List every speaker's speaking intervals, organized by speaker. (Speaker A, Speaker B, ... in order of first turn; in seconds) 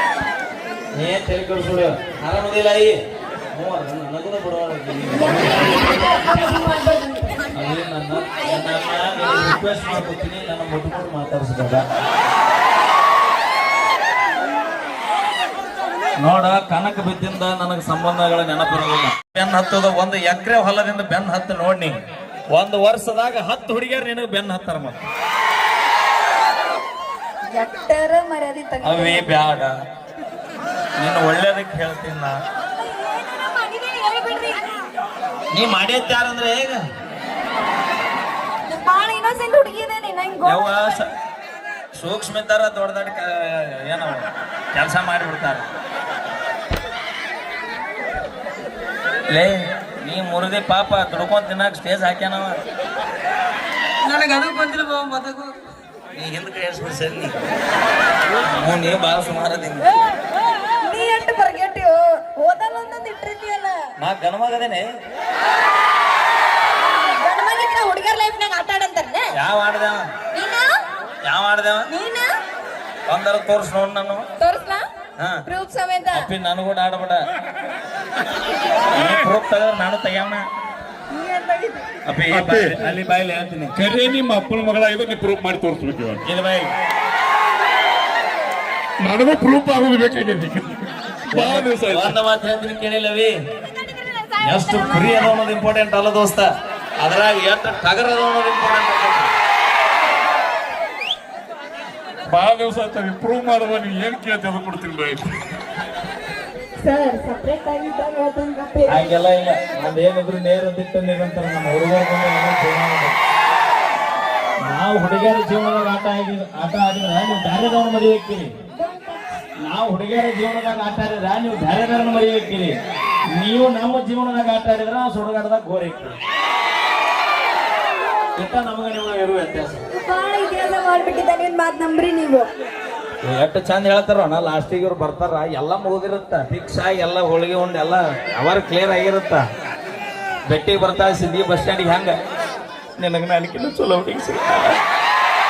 Speaker A: 0.9-3.0, 3.5-6.3, 7.5-11.8, 16.2-21.9, 22.5-25.0, 28.8-29.7, 31.0-32.4, 35.5-36.8, 40.4-41.0, 42.0-45.6, 49.3-52.5, 56.1-57.3, 58.4-59.9, 64.0-64.8, 69.3-70.0, 71.2-71.9, 73.1-74.2, 75.2-75.4, 76.1-77.2, 78.9-80.4, 82.0-83.7, 86.2-86.7, 91.3-93.3, 94.4-96.5, 97.0-99.3, 108.9-113.1, 114.7-118.5, 119.6-122.8, 123.3-126.1, 128.3-129.8, 133.2-139.4, 140.5-142.1, 143.0-144.8
Speaker B: 5.1-7.4, 27.5-29.2, 32.7-34.7, 38.7-40.8, 54.0-55.5, 60.8-63.8, 67.2-69.3, 70.3-70.7, 71.9-72.3, 74.4-74.8, 75.5-76.3, 81.1-81.9, 106.8-109.0, 118.8-119.4, 129.9-132.4
Speaker C: 82.3-82.8, 83.7-86.2, 89.0-92.2, 102.3-105.3